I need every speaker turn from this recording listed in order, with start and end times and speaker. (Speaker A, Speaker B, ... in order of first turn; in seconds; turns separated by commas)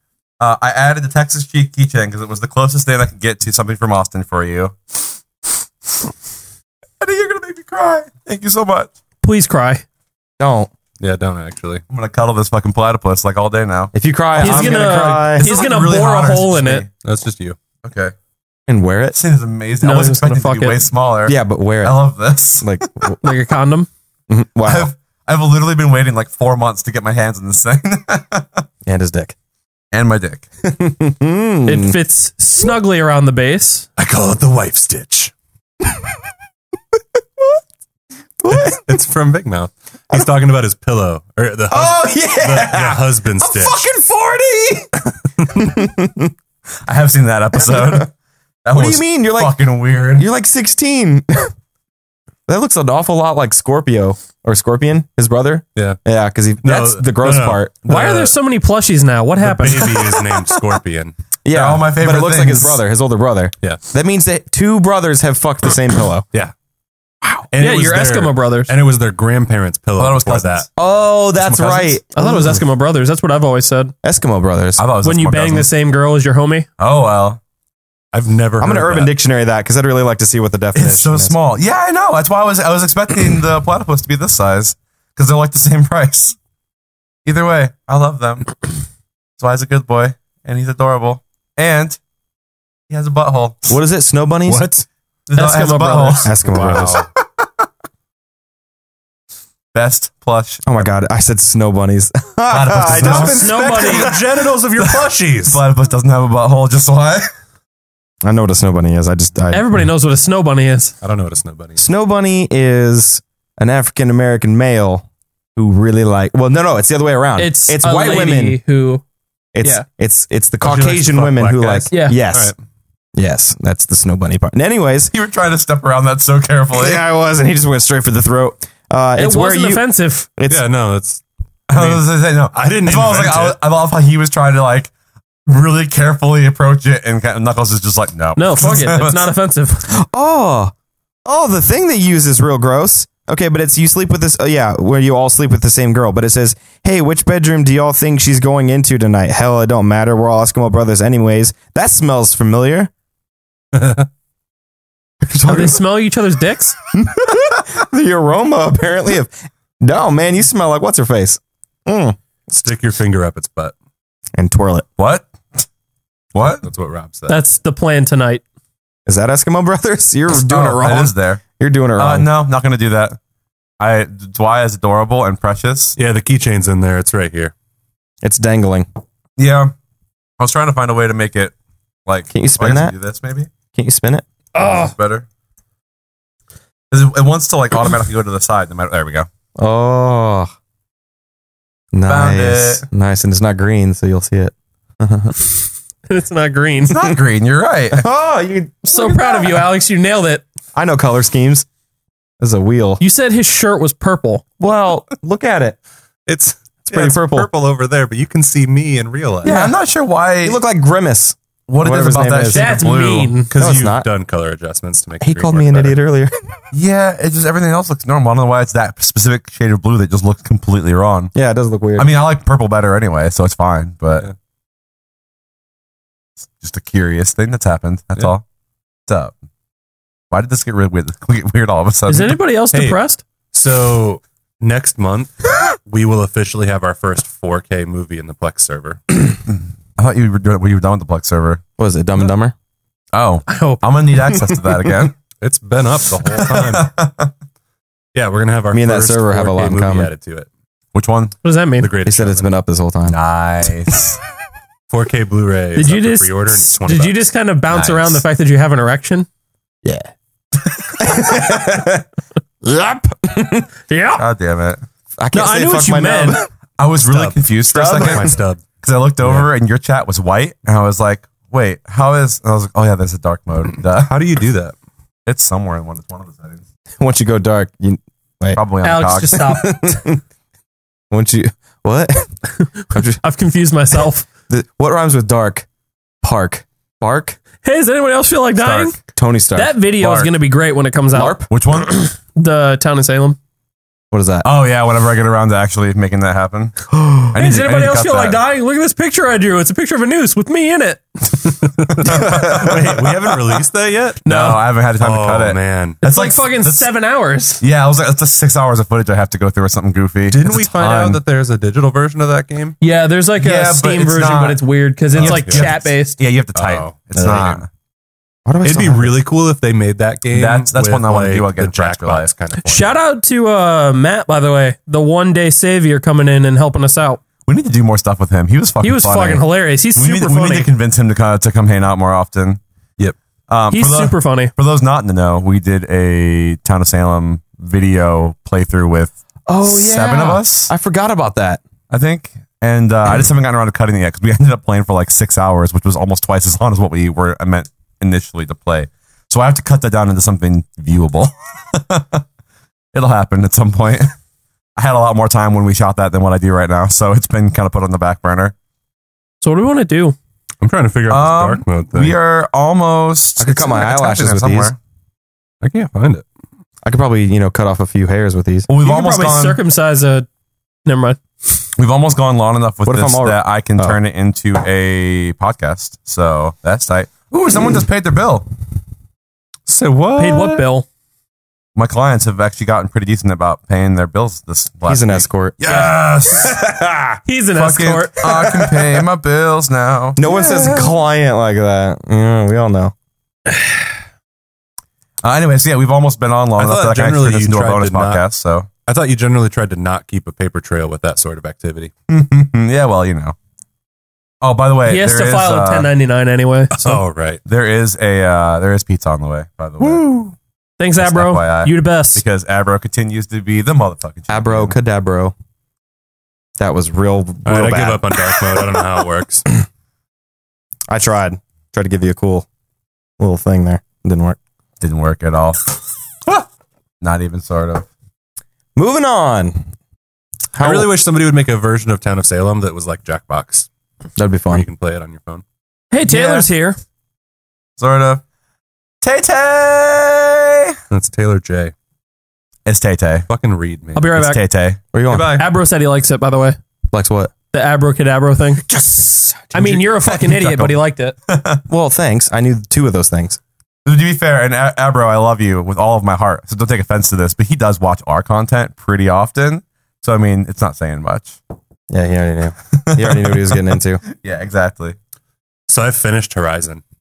Speaker A: 0.4-4.7, Speaker A: 7.0-8.9, Speaker B: 9.2-9.8, Speaker C: 10.4-10.7, Speaker D: 11.0-11.8, Speaker A: 11.9-16.9, Speaker C: 13.9-15.5, Speaker B: 14.4-16.9, Speaker D: 17.0-17.6, Speaker A: 17.8-18.1, Speaker C: 18.7-19.2, Speaker A: 19.1-22.8, Speaker B: 19.8-20.8, Speaker C: 21.3-22.0, Speaker C: 22.6-23.2, Speaker B: 23.2-23.9, Speaker C: 24.3-24.9, Speaker A: 24.6-28.6, Speaker C: 28.9-29.4, Speaker A: 29.9-30.5, Speaker C: 30.6-32.0, Speaker B: 31.7-33.9, Speaker D: 34.0-35.3, Speaker C: 38.4-38.9, Speaker D: 38.5-43.8, Speaker C: 41.7-44.9, Speaker C: 45.5-46.3, Speaker A: 46.9-48.1, Speaker C: 47.6-48.1, Speaker A: 48.6-50.3, Speaker C: 48.7-51.5, Speaker C: 52.5-57.7, Speaker D: 56.6-58.3, Speaker B: 57.9-59.9, Speaker D: 59.4-61.2, Speaker C: 61.4-66.3, Speaker A: 61.5-62.8, Speaker D: 67.5-70.7, Speaker B: 67.6-68.7, Speaker A: 70.0-70.7, Speaker C: 70.8-72.6, Speaker A: 71.5-71.9, Speaker B: 72.2-73.9, Speaker C: 74.0-74.8, Speaker A: 74.8-75.7, Speaker B: 75.0-76.7, Speaker A: 76.8-77.4, Speaker D: 78.1-79.1, Speaker C: 78.6-81.4, Speaker A: 80.7-86.4, Speaker A: 87.3-88.5, Speaker A: 89.4-92.0, Speaker A: 92.9-93.8, Speaker C: 93.7-94.7, Speaker D: 94.5-94.8, Speaker A: 95.3-97.0, Speaker B: 95.3-96.3, Speaker C: 96.2-97.0, Speaker D: 96.5-97.1, Speaker A: 99.7-100.8, Speaker C: 100.7-104.2, Speaker A: 102.5-103.5, Speaker D: 102.9-105.6, Speaker B: 103.3-104.1, Speaker A: 104.8-107.3, Speaker C: 108.2-109.6, Speaker B: 109.5-111.0, Speaker D: 111.0-111.8, Speaker C: 111.8-118.6, Speaker B: 117.4-119.0, Speaker C: 119.5-122.5, Speaker D: 120.6-122.6, Speaker B: 121.9-122.2, Speaker C: 123.2-125.1, Speaker A: 125.1-127.0, Speaker C: 126.7-130.7, Speaker B: 129.2-130.3, Speaker D: 130.5-133.6, Speaker A: 131.7-134.9, Speaker A: 135.5-139.3, Speaker B: 138.4-139.9, Speaker C: 139.9-140.7, Speaker C: 141.2-152.9, Speaker D: 153.7-154.1, Speaker C: 155.2-155.8, Speaker B: 155.5-156.8, Speaker C: 156.9-162.2, Speaker D: 162.5-163.7, Speaker C: 164.4-164.9, Speaker A: 165.0-165.6, Speaker A: 166.3-166.7, Speaker D: 166.4-167.4, Speaker B: 167.3-168.4, Speaker C: 169.1-172.3, Speaker A: 170.3-171.4, Speaker A: 172.0-173.2, Speaker A: 173.8-176.0, Speaker D: 176.0-177.5, Speaker C: 178.2-178.9, Speaker A: 179.4-179.7, Speaker A: 180.4-181.5, Speaker A: 182.1-183.5, Speaker C: 182.3-182.9, Speaker C: 183.7-184.3, Speaker B: 184.5-184.9, Speaker A: 184.6-185.3, Speaker A: 186.9-189.3, Speaker C: 189.6-190.5, Speaker C: 191.9-195.4, Speaker A: 192.1-192.8, Speaker B: 196.1-197.0, Speaker A: 196.9-198.1, Speaker C: 197.9-199.6, Speaker B: 198.8-200.4, Speaker C: 200.8-201.7, Speaker C: 202.4-203.0, Speaker B: 203.0-204.4, Speaker C: 204.6-205.8, Speaker D: 206.3-209.5, Speaker C: 206.9-207.5, Speaker C: 209.4-209.8, Speaker A: 209.4-210.6, Speaker C: 210.4-212.7, Speaker A: 211.7-213.4, Speaker B: 212.5-213.5, Speaker D: 213.5-216.0, Speaker C: 213.6-214.1, Speaker C: 215.2-216.3, Speaker A: 216.7-221.3, Speaker C: 221.3-222.1, Speaker A: 222.0-224.3, Speaker A: 226.6-228.4, Speaker A: 229.1-229.3, Speaker A: 230.3-232.4, Speaker B: 232.1-233.2, Speaker D: 232.7-233.0, Speaker D: 233.5-239.0, Speaker A: 240.0-241.6, Speaker C: 241.8-242.6, Speaker A: 243.1-245.2, Speaker B: 243.5-243.8, Speaker D: 245.4-246.9, Speaker A: 246.2-247.3, Speaker D: 248.1-250.5, Speaker C: 248.7-250.1, Speaker A: 250.9-251.4, Speaker B: 251.4-251.9, Speaker D: 251.8-252.5, Speaker C: 252.0-253.2, Speaker A: 253.1-254.0, Speaker D: 254.9-257.2, Speaker B: 255.8-259.3, Speaker A: 257.7-258.2, Speaker C: 259.8-260.1, Speaker C: 261.0-262.1, Speaker C: 262.6-263.7, Speaker B: 263.9-264.2, Speaker A: 264.2-264.8, Speaker C: 265.2-266.5, Speaker B: 265.3-266.4, Speaker A: 266.8-268.3, Speaker D: 267.0-268.6, Speaker C: 267.7-268.4, Speaker A: 268.8-274.1, Speaker D: 269.2-269.5, Speaker D: 274.0-274.8, Speaker A: 275.3-276.6, Speaker C: 277.0-278.6, Speaker A: 278.6-279.4, Speaker B: 278.8-280.0, Speaker C: 279.4-280.2, Speaker C: 281.1-282.3, Speaker B: 282.6-284.3, Speaker C: 282.9-283.2, Speaker C: 284.5-285.7, Speaker C: 286.2-287.4, Speaker B: 287.6-289.0, Speaker A: 288.6-288.9, Speaker C: 289.1-289.8, Speaker B: 289.6-293.4, Speaker A: 290.0-290.3, Speaker C: 291.1-291.5, Speaker A: 291.5-292.0, Speaker C: 294.1-294.5, Speaker A: 294.4-298.4, Speaker C: 296.9-297.3, Speaker B: 297.4-301.0, Speaker D: 301.6-304.4, Speaker A: 302.1-302.9, Speaker C: 302.2-302.9, Speaker A: 304.3-306.5, Speaker B: 304.3-304.6, Speaker D: 305.0-306.0, Speaker B: 306.0-307.6, Speaker D: 306.6-306.9, Speaker A: 307.6-311.2, Speaker D: 310.3-312.8, Speaker B: 312.8-316.2, Speaker A: 313.4-317.7, Speaker D: 315.1-315.7, Speaker D: 316.6-317.6, Speaker C: 318.5-319.2, Speaker D: 318.6-322.9, Speaker A: 320.3-322.3, Speaker B: 322.6-327.2, Speaker A: 327.5-332.6, Speaker B: 328.8-330.7, Speaker A: 333.5-340.7, Speaker B: 333.7-334.5, Speaker C: 339.5-341.6, Speaker A: 341.9-352.2, Speaker A: 352.9-354.1, Speaker A: 354.8-358.5, Speaker B: 359.4-360.2, Speaker D: 360.6-362.2, Speaker A: 361.1-364.8, Speaker C: 363.4-364.8, Speaker D: 365.6-366.2, Speaker C: 366.8-368.7, Speaker A: 368.7-369.6, Speaker B: 368.8-370.3, Speaker B: 370.9-371.2, Speaker A: 371.8-378.5, Speaker C: 372.9-374.0, Speaker D: 379.7-380.6, Speaker B: 380.2-380.9, Speaker A: 381.8-386.6, Speaker C: 384.9-385.6, Speaker C: 386.4-387.2, Speaker B: 387.3-388.1, Speaker A: 387.6-390.2, Speaker C: 388.2-389.0, Speaker C: 390.2-392.9, Speaker A: 395.2-398.7, Speaker D: 396.6-398.2, Speaker D: 398.9-401.9, Speaker A: 402.1-403.4, Speaker A: 404.4-405.9, Speaker B: 404.9-407.0, Speaker D: 406.7-407.4, Speaker A: 407.5-410.3, Speaker D: 409.8-410.1, Speaker B: 410.8-412.2, Speaker A: 411.0-414.8, Speaker C: 414.3-415.3, Speaker C: 416.6-418.3, Speaker D: 417.4-419.4, Speaker C: 420.9-422.5, Speaker C: 423.2-424.4, Speaker A: 424.8-425.6, Speaker A: 427.0-427.9, Speaker C: 428.8-429.7, Speaker C: 430.5-430.9, Speaker D: 430.6-433.7, Speaker C: 434.2-434.7, Speaker D: 434.5-435.4, Speaker B: 435.9-436.8, Speaker A: 436.1-436.5, Speaker A: 437.8-438.2, Speaker A: 439.0-440.8, Speaker D: 440.9-441.7, Speaker A: 442.7-443.3, Speaker D: 443.3-444.1, Speaker B: 443.9-444.4, Speaker A: 444.0-444.8, Speaker C: 444.9-445.4, Speaker D: 445.1-445.5, Speaker B: 445.3-446.6, Speaker C: 446.9-447.3, Speaker B: 447.5-448.7, Speaker B: 449.5-451.1, Speaker A: 449.6-451.6, Speaker C: 451.7-453.4, Speaker A: 453.9-461.4, Speaker C: 461.9-464.0, Speaker A: 462.9-465.0, Speaker D: 465.7-466.8